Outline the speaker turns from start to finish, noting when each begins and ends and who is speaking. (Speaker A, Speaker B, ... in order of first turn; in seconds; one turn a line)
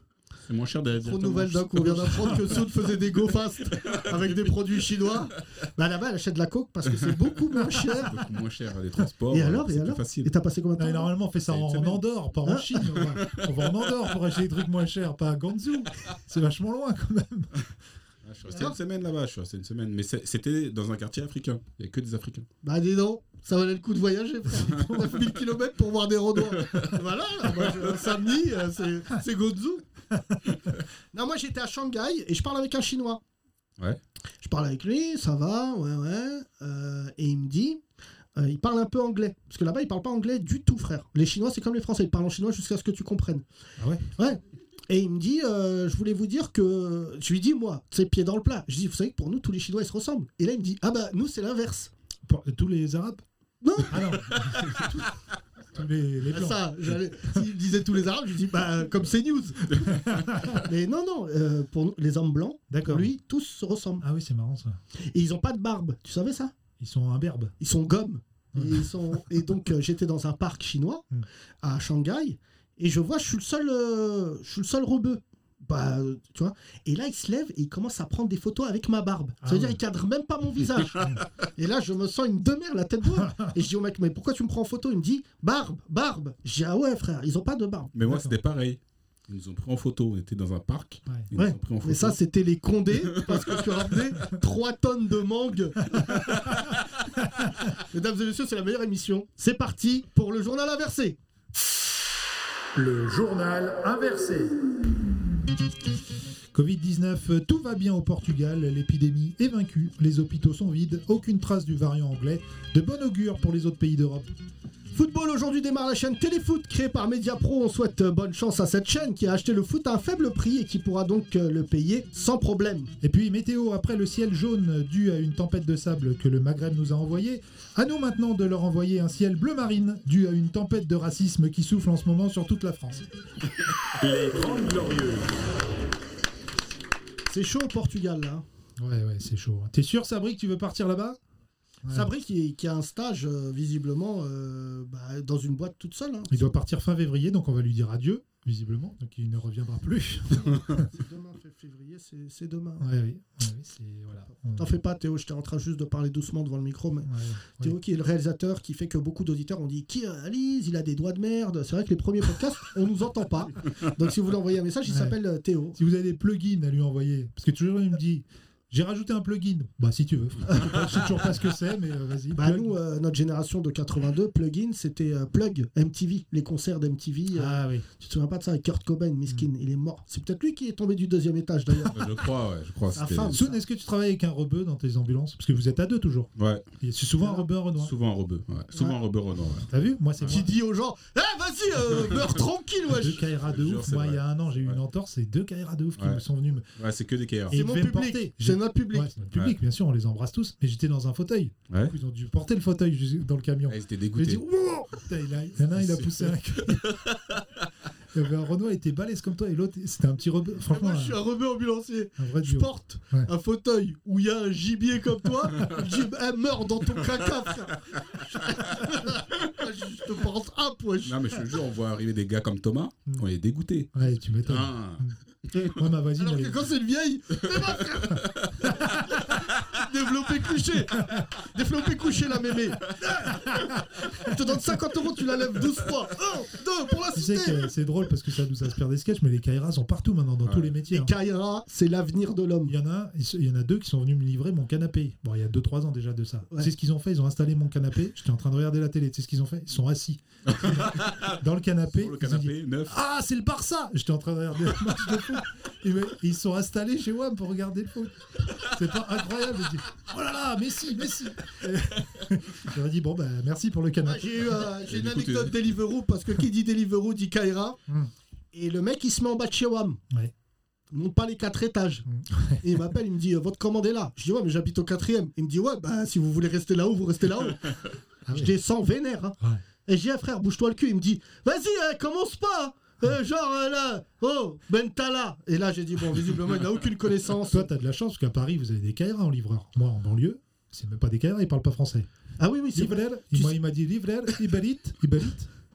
Speaker A: 0.5-2.9
Speaker B: 1.0-8.2
Speaker A: 3.8-4.3
Speaker A: 7.9-10.3
Speaker B: 9.3-11.1
Speaker C: 10.8-17.7
Speaker A: 11.5-12.0
Speaker A: 13.0-13.5
Speaker A: 18.2-22.5
Speaker B: 18.5-18.8
Speaker B: 22.6-29.8
Speaker C: 24.6-25.1
Speaker B: 31.1-33.2
Speaker B: 34.4-37.8
Speaker B: 38.4-43.4
Speaker C: 43.8-44.1
Speaker B: 44.2-51.9
Speaker C: 52.3-53.2
Speaker B: 53.6-55.0
Speaker C: 53.9-55.0
Speaker C: 55.7-57.4
Speaker B: 56.3-59.9
Speaker C: 59.9-60.6
Speaker B: 60.5-64.0
Speaker C: 62.7-63.1
Speaker C: 64.0-64.8
Speaker B: 65.0-66.5
Speaker C: 66.8-67.5
Speaker B: 67.6-71.0
Speaker C: 68.5-69.5
Speaker B: 71.6-87.9
Speaker C: 79.4-79.8
Speaker C: 83.2-83.5
Speaker A: 88.0-92.2
Speaker C: 88.0-88.3
Speaker B: 91.3-96.2
Speaker A: 93.1-93.9
Speaker C: 95.9-96.5
Speaker C: 97.2-97.5
Speaker B: 97.8-101.2
Speaker C: 102.7-104.7
Speaker C: 106.5-114.3
Speaker B: 114.9-122.9
Speaker C: 123.0-133.1
Speaker A: 134.0-135.3
Speaker B: 137.3-138.4
Speaker C: 138.8-141.2
Speaker C: 141.8-142.1
Speaker B: 141.9-146.6
Speaker C: 146.3-150.9
Speaker B: 150.3-152.9
Speaker C: 152.8-154.7
Speaker B: 154.5-165.8
Speaker C: 157.0-157.8
Speaker C: 164.9-165.2
Speaker C: 165.8-172.8
Speaker B: 170.5-170.8
Speaker B: 172.3-182.0
Speaker C: 177.3-177.9
Speaker A: 181.9-183.4
Speaker B: 182.9-183.6
Speaker C: 183.3-187.9
Speaker A: 186.4-186.6
Speaker B: 187.2-187.5
Speaker A: 187.8-190.4
Speaker C: 189.7-190.5
Speaker B: 190.3-193.2
Speaker C: 192.9-196.7
Speaker A: 193.4-194.8
Speaker A: 196.0-196.2
Speaker A: 196.8-197.6
Speaker C: 197.5-207.0
Speaker B: 197.5-199.1
Speaker A: 203.7-204.4
Speaker A: 205.7-207.0
Speaker C: 208.1-211.2
Speaker B: 210.7-221.4
Speaker C: 212.2-213.3
Speaker A: 221.0-225.7
Speaker C: 223.9-226.7
Speaker B: 226.2-237.7
Speaker C: 228.7-229.2
Speaker C: 233.2-234.8
Speaker C: 237.1-241.1
Speaker A: 240.5-240.7
Speaker B: 240.9-242.8
Speaker C: 242.7-264.6
Speaker A: 250.5-251.4
Speaker A: 251.9-253.0
Speaker B: 264.0-267.8
Speaker A: 264.8-265.6
Speaker B: 268.5-270.0
Speaker B: 270.9-272.1
Speaker C: 272.1-272.9
Speaker B: 272.6-287.7
Speaker C: 278.3-278.5
Speaker C: 287.5-292.1
Speaker B: 292.4-293.6
Speaker C: 292.7-295.5